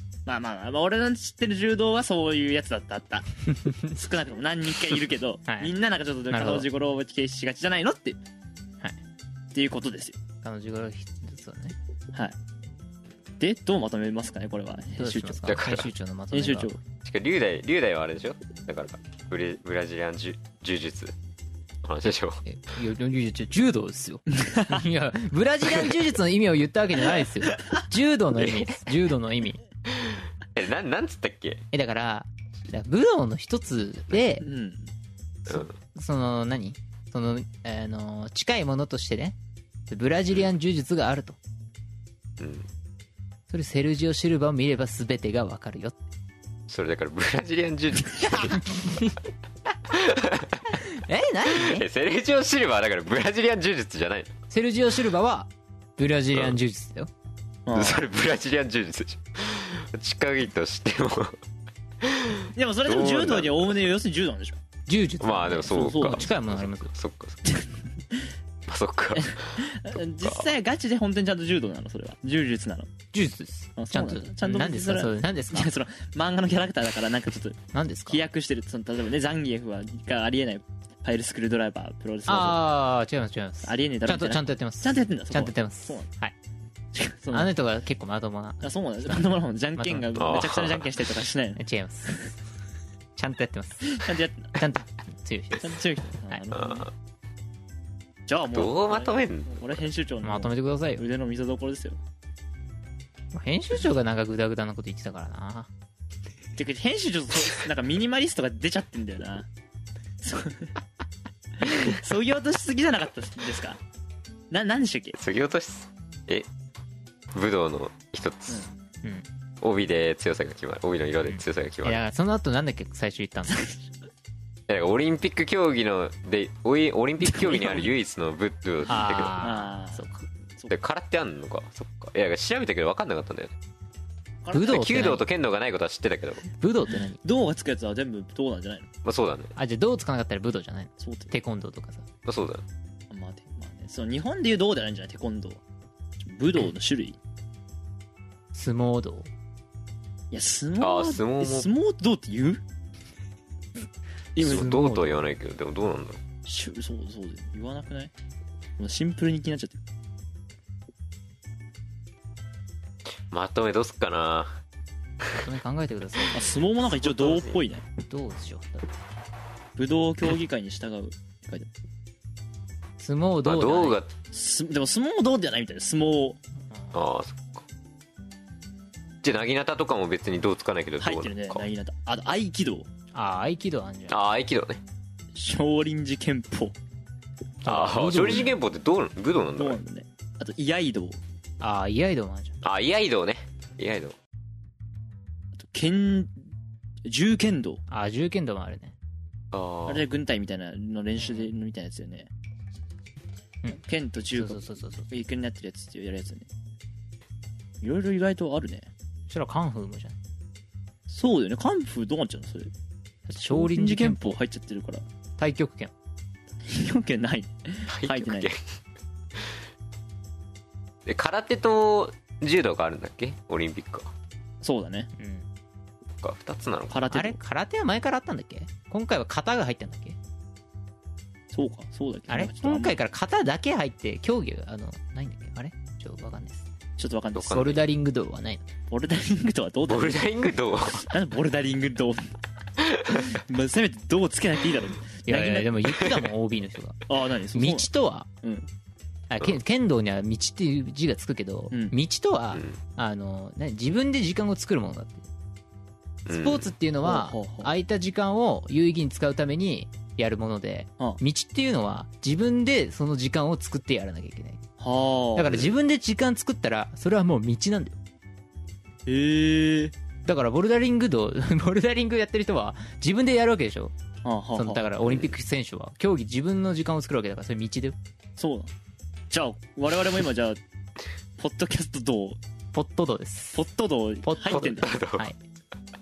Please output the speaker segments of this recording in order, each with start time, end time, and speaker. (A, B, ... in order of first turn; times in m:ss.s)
0:00.3-0:08.2 A
0:06.3-0:06.7 B
0:09.5-0:10.2 A
0:10.4-0:11.8 B
0:13.4-0:15.6 A
0:15.0-0:16.7 B
0:15.5-0:15.9 C
0:16.3-0:16.8 A
0:17.0-0:21.1 C
0:21.8-0:22.4 C
0:22.4-0:29.6 B
0:24.5-0:24.8 A
0:28.4-0:28.8 C
0:29.9-0:31.6 C
0:31.7-0:34.5 B
0:34.4-0:34.9 A
0:35.5-0:35.7 C
0:35.5-0:39.4 B
0:39.9-0:41.4 B
0:42.4-0:42.7 C
0:43.5-0:46.0 B
0:46.7-0:48.7 C
0:48.3-0:49.2 B
0:49.9-0:50.6 C
0:50.7-0:51.9 B
0:51.5-0:54.4 C
0:54.5-0:57.1 B
0:57.7-0:58.1 A
0:57.7-1:01.4 C
1:02.0-1:03.9 C
1:02.6-1:04.6 A
1:04.9-1:06.9 B
1:05.2-1:07.4 C
1:05.7-1:06.3 A
1:08.7-1:10.5 C
1:09.2-1:12.9 A
1:13.1-1:15.7 B
1:13.8-1:22.6 A
1:17.7-1:18.2 B
1:22.3-1:26.4 B
1:23.6-1:26.1 A
1:27.0-1:27.5 A
1:27.3-1:30.0 B
1:28.6-1:31.6 A
1:30.2-1:30.9 C
1:31.6-1:32.3 B
1:33.2-1:35.8 B
1:33.9-1:34.6 A
1:35.6-1:36.9 A
1:36.5-1:36.9 C
1:38.3-1:42.0 A
1:38.5-1:39.8 C
1:40.2-1:41.0 B
1:43.3-1:45.7 B
1:46.6-1:49.5 A
1:50.2-1:50.7 A
1:51.6-1:53.8 A
1:54.5-1:55.2 A
1:55.2-1:56.5 C
1:57.3-1:58.7 C
1:59.6-2:02.0 C
2:01.3-2:03.7 B
2:04.7-2:09.3 C
2:08.9-2:10.3 B
2:09.4-2:10.1 A
2:10.7-2:13.5 C
2:14.4-2:15.0 A
2:14.5-2:15.2 B
2:14.7-2:16.4 C
2:16.6-2:17.2 B
2:17.2-2:18.9 A
2:19.0-2:19.5 C
2:19.6-2:22.0 B
2:21.0-2:21.3 A
2:22.2-2:22.6 C
2:23.1-2:25.6 A
2:26.2-2:27.2 A
2:28.5-2:29.3 B
2:30.3-2:32.6 A
2:30.8-2:31.7 C
2:34.4-2:35.2 B
2:34.4-2:36.2 C
2:34.4-2:34.7 A
2:36.5-2:38.1 A
2:38.8-2:39.8 A
2:43.3-2:44.6 C
2:45.3-2:46.7 B
2:46.3-2:47.8 A
2:47.0-2:47.6 C
2:48.0-2:49.0 B
2:49.8-2:51.7 A
2:53.0-2:54.0 B
2:53.4-2:54.1 C
2:54.3-2:56.4 A
2:56.7-2:57.0 B
2:56.9-2:57.6 C
2:59.2-3:01.7 C
3:01.0-3:02.9 A
3:03.1-3:04.2 B
3:04.1-3:04.8 C
3:05.4-3:06.8 A
3:07.6-3:08.6 B
3:07.6-3:09.8 C
3:09.6-3:11.2 A
3:11.6-3:12.6 B
3:12.6-3:14.2 C
3:15.6-3:16.3 A
3:17.0-3:17.8 A
3:17.9-3:19.0 B
3:19.5-3:20.0 C
3:19.9-3:22.3 A
3:21.2-3:21.5 B
3:23.8-3:26.5 A
3:24.3-3:25.1 B
3:27.8-3:28.9 A
3:29.3-3:30.2 B
3:31.1-3:32.7 A
3:33.3-3:34.4 B
3:33.4-3:35.0 A
3:35.4-3:35.9 B
3:36.7-3:38.5 A
3:37.9-3:38.7 C
3:41.1-3:44.1 C
3:44.6-3:45.1 A
3:45.2-3:45.5 B
3:46.2-3:47.0 C
3:46.9-3:47.4 A
3:47.1-3:50.2 B
3:51.5-3:53.0 A
3:52.3-3:56.7 B
3:57.0-3:57.6 A
3:57.4-3:57.8 C
3:57.4-3:58.7 B
3:58.9-4:00.2 A
3:59.9-4:01.1 C
4:01.0-4:02.3 A
4:03.0-4:03.3 C
4:03.2-4:05.8 A
4:05.3-4:07.0 B
4:07.1-4:07.9 A
4:07.5-4:08.3 B
4:09.3-4:15.2 B
4:16.3-4:16.7 C
4:16.3-4:24.6 B
4:17.0-4:17.7 A
4:24.8-4:25.6 A
4:25.4-4:28.0 B
4:29.1-4:29.9 A
4:30.3-4:33.9 B
4:34.2-4:34.8 A
4:34.6-4:38.0 B
4:35.1-4:35.3 C
4:38.4-4:38.7 A
4:39.3-4:40.6 A
4:41.4-4:42.4 A
4:42.7-4:43.6 B
4:43.5-4:44.9 A
4:44.2-4:45.4 B
4:44.4-4:45.3 C